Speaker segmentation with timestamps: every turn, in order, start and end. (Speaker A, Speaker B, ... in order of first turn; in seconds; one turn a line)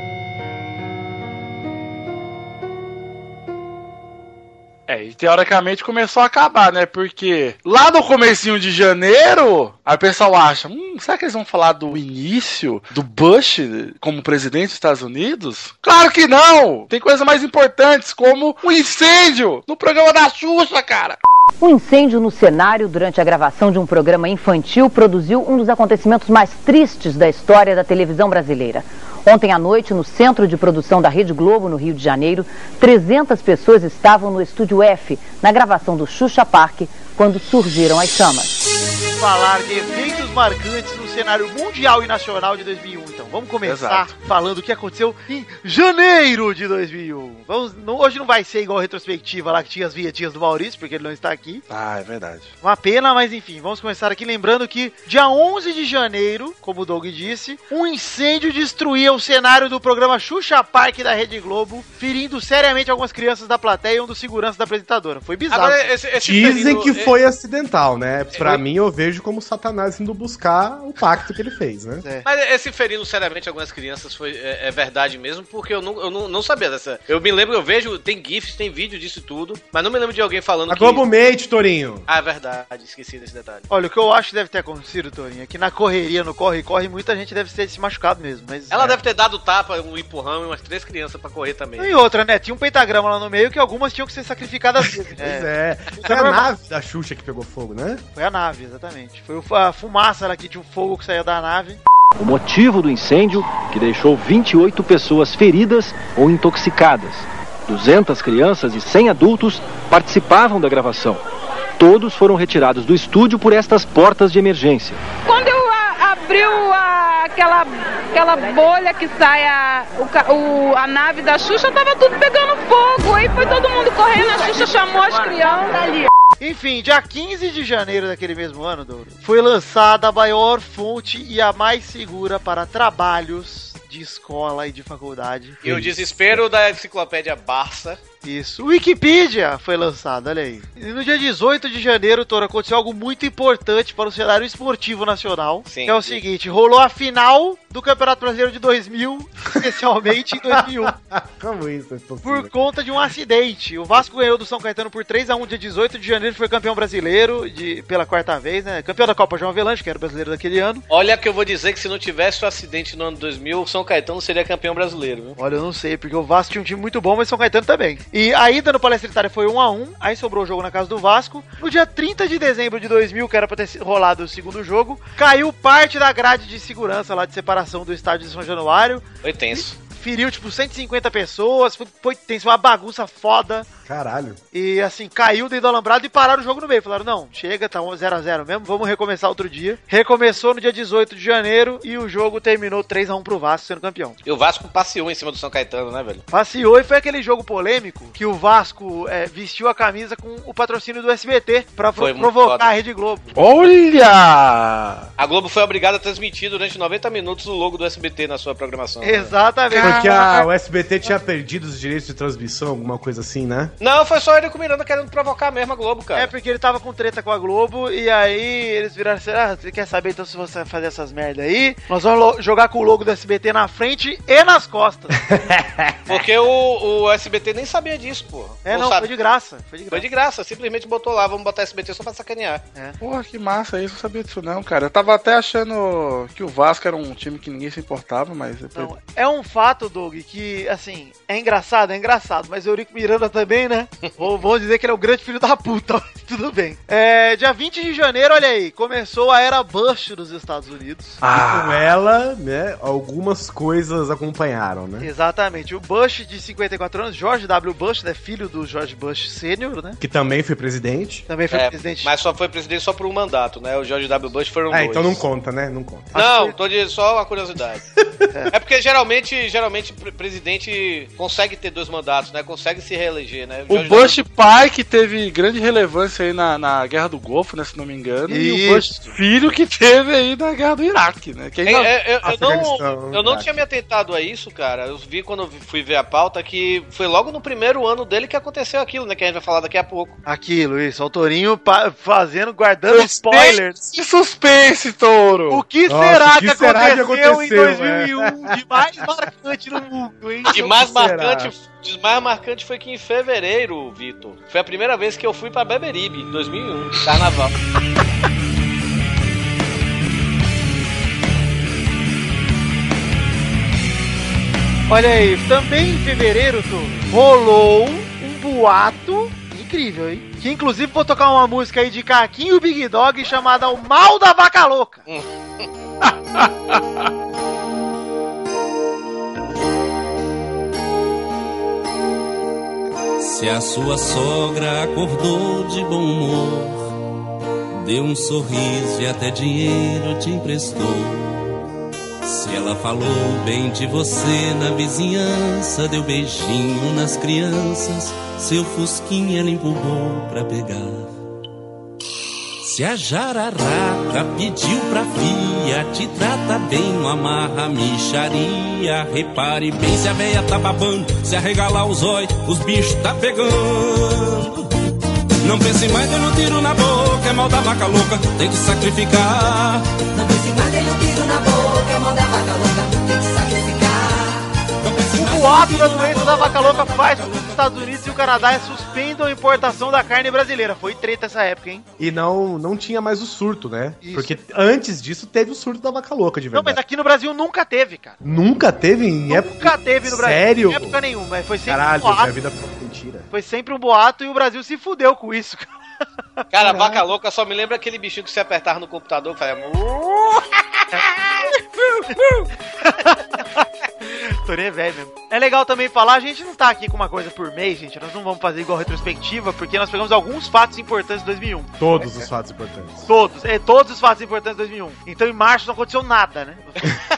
Speaker A: 4.9-21.2
Speaker B: 21.6-38.5
Speaker C: 39.1-51.6
Speaker A: 43.6-44.1
Speaker A: 51.7-52.5
Speaker C: 52.6-65.9
Speaker D: 65.5-67.1
Speaker E: 66.2-72.0
Speaker D: 68.3-68.6
Speaker C: 72.0-72.2
Speaker D: 72.2-81.0
Speaker E: 80.7-82.0
Speaker D: 82.1-83.6
Speaker C: 83.7-89.0
Speaker D: 88.7-91.9
Speaker C: 91.8-96.5
Speaker E: 95.1-98.0
Speaker C: 98.1-101.8
Speaker F: 102.2-111.2
Speaker F: 111.8-115.0
Speaker G: 115.2-125.9
Speaker C: 126.4-135.6
Speaker D: 135.6-138.0
Speaker E: 135.6-136.4
Speaker C: 138.2-150.9
Speaker D: 145.6-146.2
Speaker E: 150.4-152.5
Speaker C: 152.2-160.8
Speaker D: 160.9-165.4
Speaker C: 165.4-183.7
Speaker D: 179.2-179.8
Speaker E: 183.9-184.4
Speaker C: 184.5-194.2
Speaker D: 194.2-196.2
Speaker C: 196.3-203.7
Speaker D: 201.9-202.7
Speaker A: 203.3-205.1
Speaker D: 205.2-209.3
Speaker C: 209.0-210.1
Speaker A: 209.7-210.5
Speaker E: 209.8-213.7
Speaker D: 213.8-216.3
Speaker C: 216.1-225.2
Speaker E: 225.1-226.0
Speaker D: 226.1-229.1
Speaker C: 228.6-230.1
Speaker D: 229.9-232.6
Speaker A: 233.0-238.9
Speaker C: 238.7-251.2
Speaker A: 251.2-251.9
Speaker E: 251.3-255.1
Speaker C: 255.0-260.0
Speaker E: 260.0-261.2
Speaker C: 261.3-262.1
Speaker D: 261.5-265.2
Speaker E: 264.7-266.1
Speaker C: 266.1-266.6
Speaker D: 266.1-267.8
Speaker D: 268.5-274.2
Speaker A: 273.7-281.9
Speaker C: 278.3-278.9
Speaker D: 281.6-290.2
Speaker E: 282.2-283.6
Speaker C: 290.2-293.9
Speaker A: 292.9-295.6
Speaker C: 295.5-300.7
Speaker E: 295.9-298.6
Speaker D: 300.5-307.5
Speaker E: 300.6-301.5
Speaker C: 314.9-325.0
Speaker D: 325.1-325.6
Speaker A: 326.0-326.8
Speaker H: 333.2-336.9
Speaker H: 337.7-341.5
Speaker H: 342.2-351.1
Speaker H: 352.6-364.7
Speaker H: 365.4-369.9
Speaker C: 373.7-373.9
Speaker H: 374.9-376.0
Speaker C: 375.1-381.9
Speaker E: 382.0-386.8
Speaker C: 384.0-384.4
Speaker C: 386.5-388.2
Speaker E: 388.2-391.0
Speaker C: 389.3-392.3
Speaker E: 391.7-393.3
Speaker C: 393.3-395.7
Speaker D: 396.5-401.1
Speaker E: 396.6-396.9
Speaker C: 402.1-412.1
Speaker E: 411.8-413.1
Speaker C: 413.1-416.9